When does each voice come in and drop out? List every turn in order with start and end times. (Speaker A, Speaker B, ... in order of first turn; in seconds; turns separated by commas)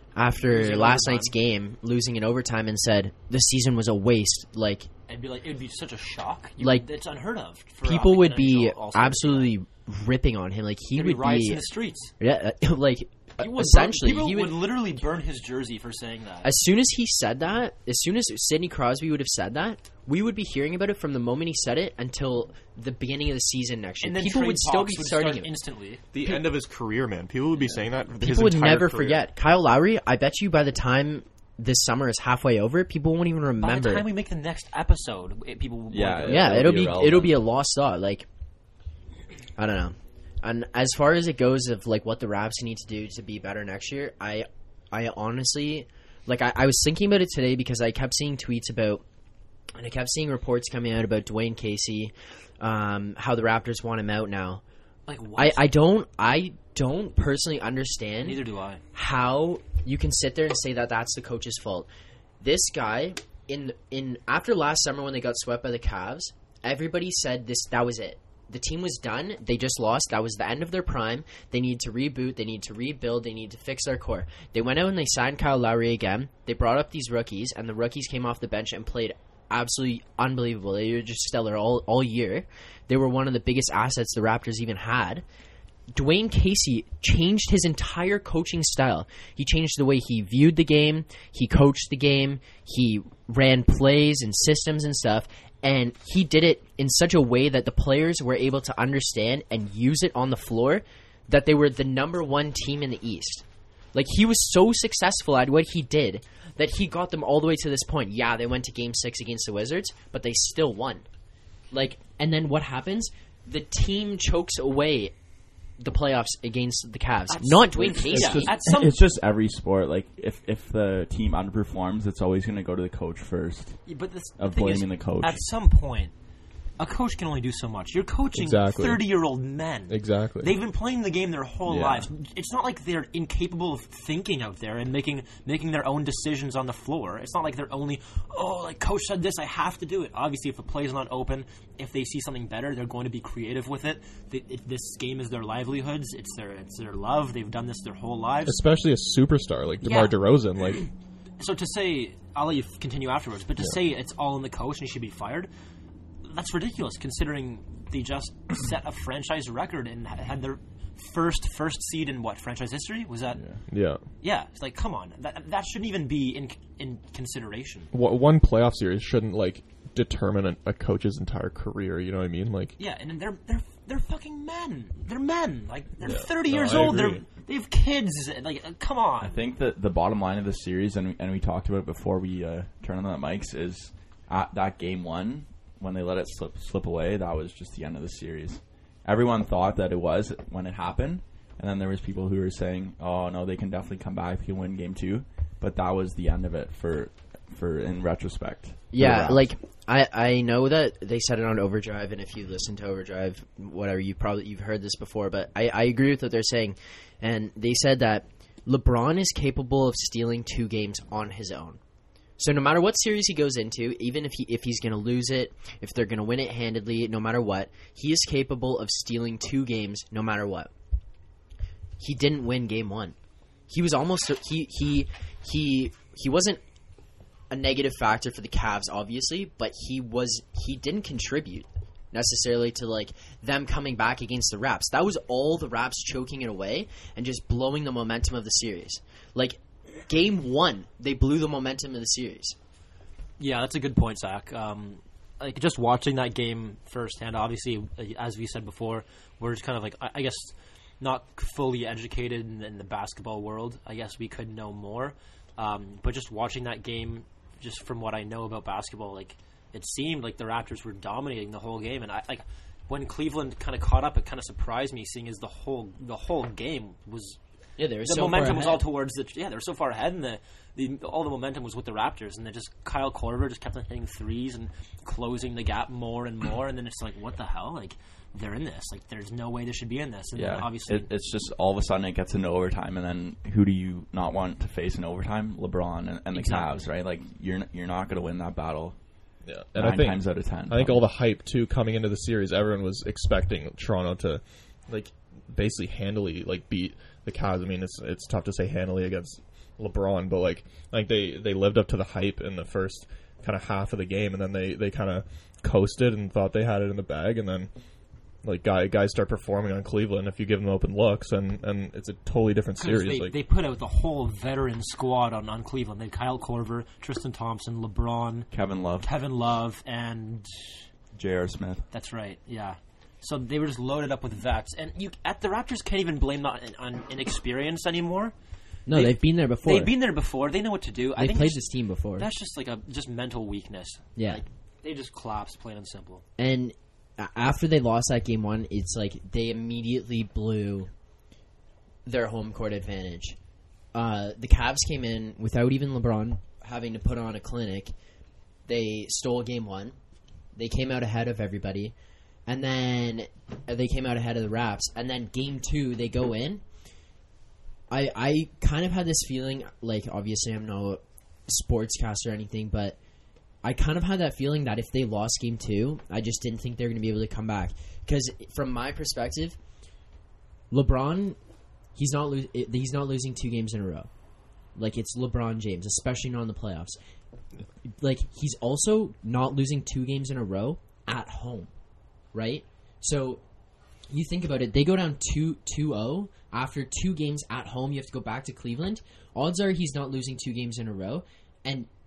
Speaker A: 0.1-4.9, Speaker B: 0.4-1.3, Speaker B: 5.1-9.5, Speaker A: 6.6-6.8, Speaker A: 7.8-11.7, Speaker B: 10.9-12.1, Speaker A: 12.2-14.8, Speaker B: 13.4-16.5, Speaker A: 16.4-25.5, Speaker B: 24.0-26.0, Speaker C: 26.1-29.3, Speaker A: 28.2-34.1, Speaker B: 33.6-36.6, Speaker D: 35.9-37.4, Speaker A: 36.2-38.3, Speaker A: 39.6-49.0, Speaker A: 49.7-54.6, Speaker B: 55.1-55.7, Speaker A: 55.4-58.4, Speaker B: 58.2-58.8, Speaker A: 58.9-61.9, Speaker A: 62.4-85.2, Speaker A: 85.9-111.0, Speaker A: 111.7-115.1, Speaker A: 115.8-118.5, Speaker B: 117.3-119.0, Speaker D: 118.1-123.8, Speaker B: 123.9-126.1, Speaker D: 124.4-125.5, Speaker B: 126.8-148.6, Speaker C: 128.4-129.1, Speaker C: 129.9-130.5, Speaker D: 131.7-132.1, Speaker C: 148.4-150.9, Speaker B: 149.8-150.1, Speaker B: 151.4-155.5, Speaker B: 156.2-167.9, Speaker D: 163.3-163.6, Speaker C: 163.7-164.0, Speaker C: 167.9-172.8, Speaker B: 172.8-179.3, Speaker C: 176.0-177.2, Speaker D: 179.2-199.4, Speaker A: 198.9-211.8, Speaker A: 212.4-220.7, Speaker A: 222.0-223.1, Speaker A: 223.7-226.6, Speaker A: 227.5-242.6, Speaker B: 243.4-267.4, Speaker A: 267.8-268.8, Speaker B: 268.0-281.1, Speaker D: 280.3-288.9, Speaker B: 286.3-286.8, Speaker C: 289.4-307.7, Speaker D: 289.8-291.1, Speaker C: 308.4-313.4, Speaker B: 312.8-318.5, Speaker D: 318.5-319.1, Speaker B: 319.0-320.8, Speaker D: 321.1-321.9, Speaker B: 321.9-328.3, Speaker A: 328.9-329.9, Speaker B: 328.9-331.6, Speaker A: 331.1-332.3, Speaker B: 332.2-336.2, Speaker A: 334.1-334.4, Speaker A: 336.4-340.9, Speaker A: 342.0-343.4, Speaker A: 343.9-347.9, Speaker A: 348.7-349.9, Speaker A: 350.5-351.9, Speaker A: 352.4-356.6, Speaker A: 357.9-363.0, Speaker A: 363.6-369.6, Speaker A: 370.7-371.4, Speaker A: 371.9-374.1, Speaker A: 374.7-377.0, Speaker A: 378.0-381.7, Speaker A: 382.3-383.4, Speaker A: 384.1-391.9